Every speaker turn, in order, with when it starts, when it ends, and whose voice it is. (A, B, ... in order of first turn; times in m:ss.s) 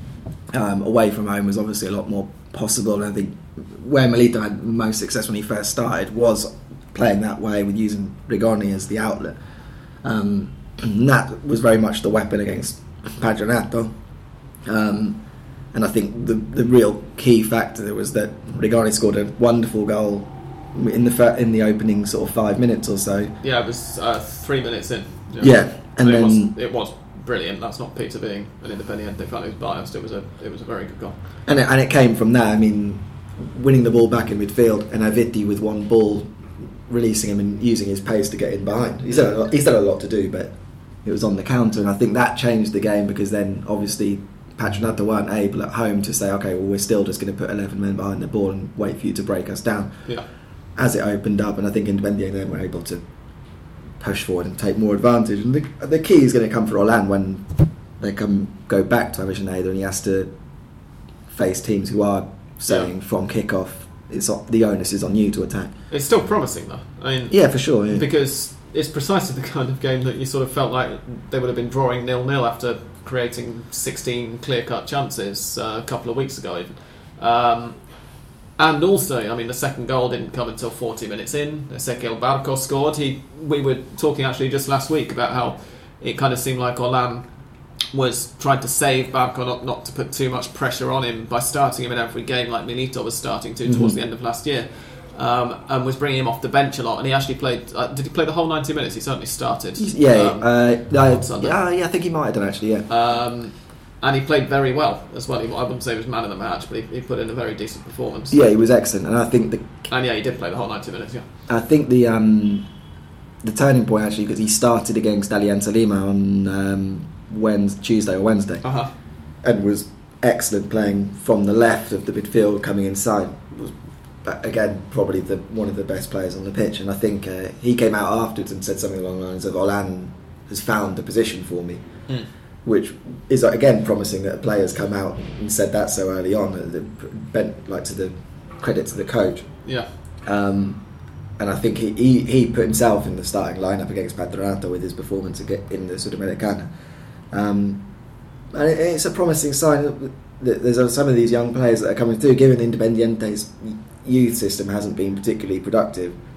0:00.5-0:09.4 A
0:10.0-0:13.9 A
0:14.6-0:15.2 A
0:15.7-0:23.3 A
0:23.4-0:31.2 B
0:25.4-0:26.5 A
0:31.4-0:50.2 A
0:50.7-0:53.0 A
0:54.0-1:00.3 A
1:01.3-1:05.7 A
1:05.9-1:27.4 B
1:07.3-1:08.0 A
1:27.9-1:41.6 B
1:33.6-1:34.0 A
1:39.8-1:42.9 A
1:42.9-1:48.5 B
1:48.3-1:49.7 A
1:49.8-1:51.3 B
1:51.5-1:52.7 A
1:53.4-1:58.7 A
1:58.6-1:58.9 B
1:59.4-2:03.6 A
2:04.2-2:11.8 A
2:12.6-2:19.6 A
2:20.2-2:20.8 A
2:21.4-2:26.7 A
2:27.3-2:27.8 A
2:28.5-2:36.2 A